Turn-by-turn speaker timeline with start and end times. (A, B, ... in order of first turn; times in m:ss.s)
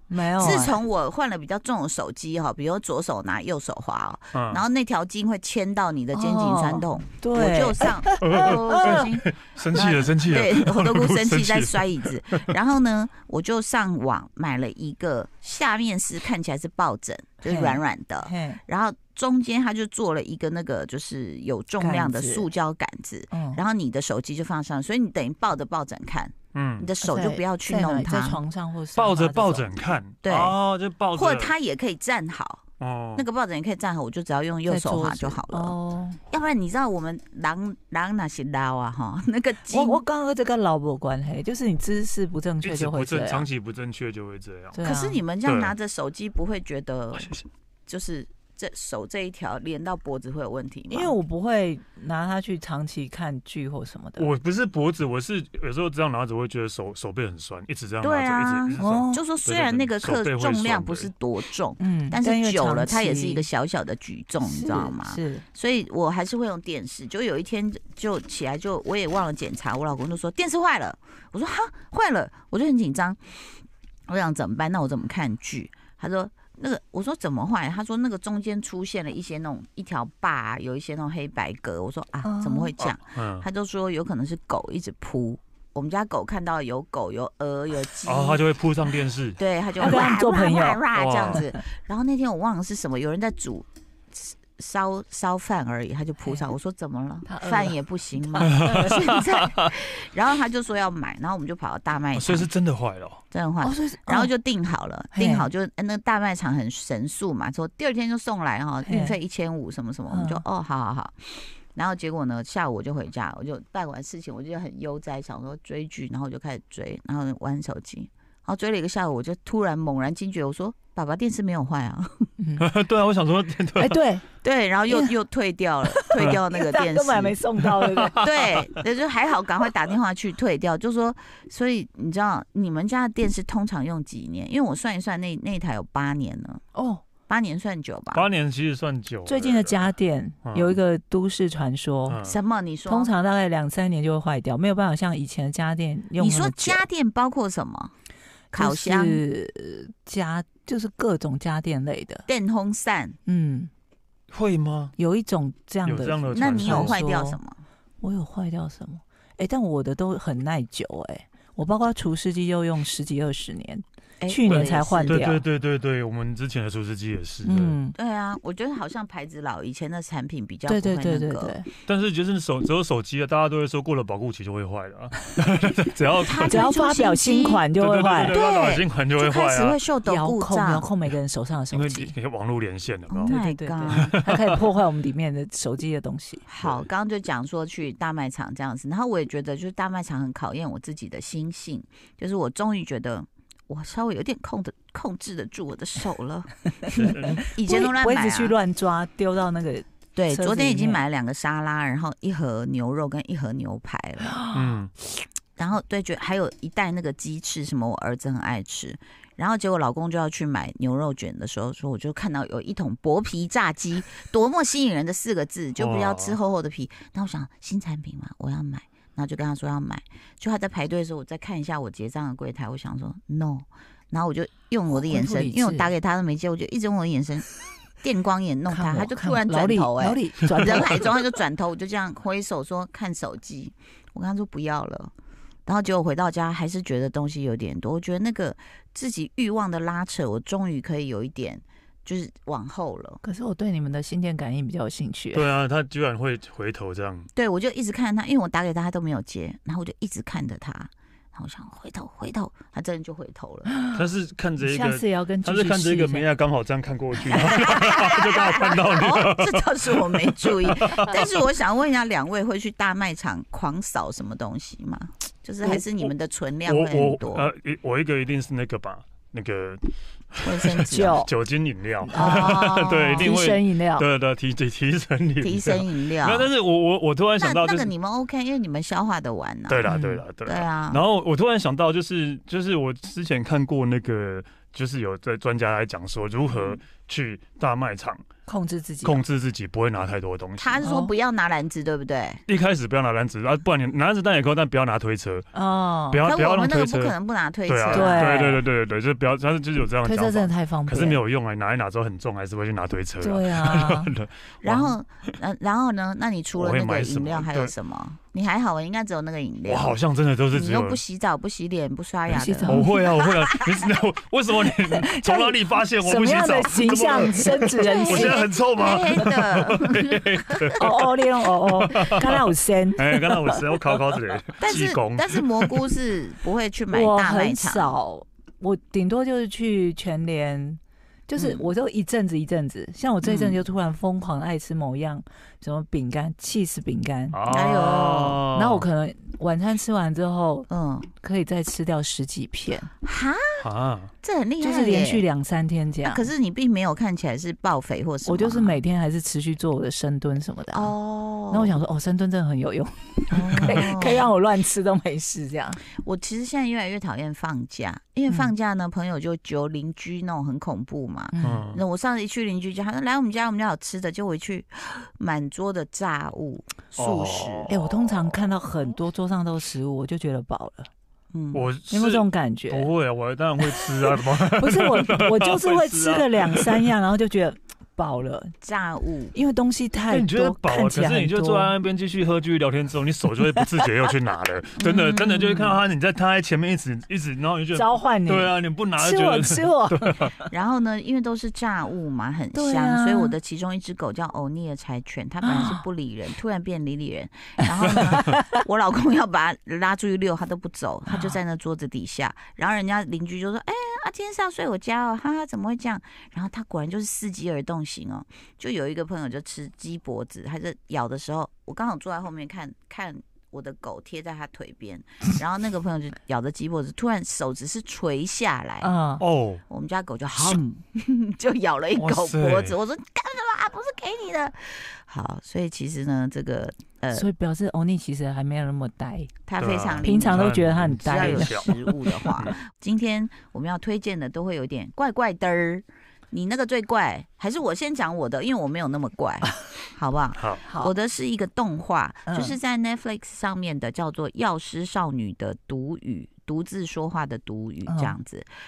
0:00.1-0:00.8 A
0:00.4-0:28.4 B
0:04.3-0:04.6 C
0:06.1-0:09.0 A
0:08.2-0:12.5 C
0:17.4-0:18.6 A
0:21.8-0:22.4 A
0:23.3-0:23.6 A
0:26.5-0:26.9 C
0:27.0-0:29.7 A
0:28.9-0:31.5 C
0:30.2-0:30.6 B
0:31.1-0:32.6 B
0:32.8-0:33.2 C
0:33.1-0:35.8 B
0:34.6-0:36.2 A
0:36.3-0:40.0 B
0:39.7-0:43.5 A
0:42.6-0:44.8 C
0:44.7-0:45.2 A
0:44.8-0:51.2 B
0:45.4-0:45.7 C
0:47.2-0:47.4 C
0:50.9-0:54.3 A
0:54.2-1:01.1 C
0:58.0-1:28.4 B
0:58.8-0:59.2 A
1:01.8-1:03.4 A
1:04.4-1:05.4 A
1:22.2-1:22.7 A
1:22.8-1:23.4 C
1:28.0-1:29.4 C
1:29.4-1:42.5 B
1:29.8-1:30.8 A
1:30.9-1:31.4 C
1:37.2-1:38.9 A
1:38.4-1:39.7 C
1:42.1-1:43.2 C
1:43.3-2:02.3 B
1:43.6-1:44.3 A
1:45.1-1:45.5 A
1:48.8-1:49.2 A
1:50.1-1:50.4 A
2:02.4-2:02.6 A
2:02.6-2:04.0 C
2:03.8-2:04.2 A
2:04.4-2:07.4 B
2:05.9-2:08.2 A
2:07.6-2:08.8 C
2:08.2-2:16.6 B
2:16.7-2:17.0 A
2:17.3-2:18.3 B
2:18.1-2:19.9 C
2:19.3-2:22.2 A
2:20.4-2:20.8 C
2:22.1-2:22.4 C
2:22.2-2:23.1 B
2:22.9-2:26.8 A
2:26.2-2:27.9 B
2:28.5-2:29.2 B
2:28.5-2:32.2 A
2:32.3-2:33.2 B
2:33.2-2:33.7 A
2:34.3-2:34.9 C
2:35.0-2:37.4 A
2:35.8-2:37.0 C
2:36.3-2:37.6 B
2:38.0-2:45.4 A
2:44.2-2:45.3 B
2:44.4-2:47.8 C
2:47.4-2:47.9 A
2:47.9-2:51.6 B
2:50.7-2:51.7 A
2:51.8-2:56.6 C
2:56.2-2:57.6 B
2:56.5-2:58.4 A
2:57.8-2:59.8 C
2:58.3-3:00.9 B
3:00.0-3:02.1 A
3:01.7-3:03.4 C
3:03.1-3:04.2 B
3:03.2-3:06.4 A
3:03.9-3:04.6 C
3:06.5-3:18.5 B
3:06.6-3:06.9 C
3:16.9-3:17.4 C
3:17.6-3:21.0 A
3:20.1-3:24.4 B
3:24.3-3:24.6 A
3:24.5-3:24.9 C
3:25.6-3:47.5 B
3:35.8-3:36.4 C
3:44.9-3:45.9 A
3:48.0-3:55.1 B
3:48.7-3:51.1 A
3:55.6-4:03.2 B
4:03.2-4:05.5 A
4:05.3-4:07.3 C
4:07.3-4:13.7 B
4:13.7-4:14.0 A
4:13.9-4:21.4 C
4:14.6-4:16.2 A
4:17.3-4:27.5 B
4:25.6-4:26.1 C
4:26.6-4:37.9 C
4:30.4-4:31.2 B
4:30.9-4:31.3 A
4:32.0-4:32.6 A
4:32.1-4:33.3 B
4:33.2-4:34.1 A
4:35.4-4:36.5 B
4:37.4-4:41.0 B
4:39.7-4:48.2 C
4:39.9-4:40.2 A
4:48.4-4:49.2 A
4:49.0-4:50.8 C
4:50.6-4:52.4 B
4:50.8-4:51.1 A
4:52.5-4:55.5 C
4:55.5-4:56.2 A
4:56.1-4:57.1 C
4:56.2-4:58.4 B
4:57.7-5:04.9 C
4:57.9-4:58.6 A
5:00.0-5:01.2 A
5:03.2-5:04.1 A
5:04.6-5:10.0 B
5:06.5-5:07.7 C
5:09.6-5:11.0 C
5:10.5-5:12.9 B
5:12.3-5:13.0 A
5:12.6-5:22.4 C
5:15.1-5:18.4 A
5:17.6-5:20.7 B
5:20.8-5:23.6 A
5:23.0-5:25.7 C
5:24.6-5:27.9 B
5:26.9-5:40.7 A
5:31.4-5:31.7 B
5:33.2-5:33.6 B
5:37.3-5:38.8 C
5:37.5-5:38.4 B
5:40.7-5:41.1 B
5:41.2-5:42.9 A
5:43.0-5:43.4 B
5:43.6-5:44.1 C
5:44.2-5:45.3 B
5:44.6-5:46.3 A
5:46.0-5:48.8 B
5:48.2-5:50.9 A
5:50.7-5:51.8 B
5:51.5-5:55.8 A
5:53.3-5:54.3 B
5:56.0-6:07.7 B
6:01.3-6:01.6 A
6:01.4-6:01.8 C
6:07.0-6:08.4 C
6:07.7-6:10.9 A
6:11.3-6:11.7 B
6:11.5-6:16.9 C
6:11.9-6:12.9 A
6:14.5-6:18.5 A
6:18.6-6:19.3 B
6:19.3-6:21.7 A
6:20.1-6:30.3 C
6:24.8-6:25.7 A
6:24.9-6:25.6 B
6:27.7-6:30.4 A
6:30.5-6:58.9 B
6:32.5-6:33.3 A
6:35.4-6:35.8 A
6:37.8-6:38.4 A
6:37.9-6:38.2 C
6:41.1-6:41.4 A
6:58.8-6:59.2 A
6:59.2-6:59.6 C
6:59.7-7:07.2 B
7:01.9-7:02.7 C
7:07.1-7:09.3 A
7:09.5-7:28.5 B
7:09.6-7:11.7 C
7:10.0-7:12.3 A
7:20.4-7:20.6 C
7:20.6-7:20.9 A
7:22.3-7:22.6 A
7:27.9-7:28.1 A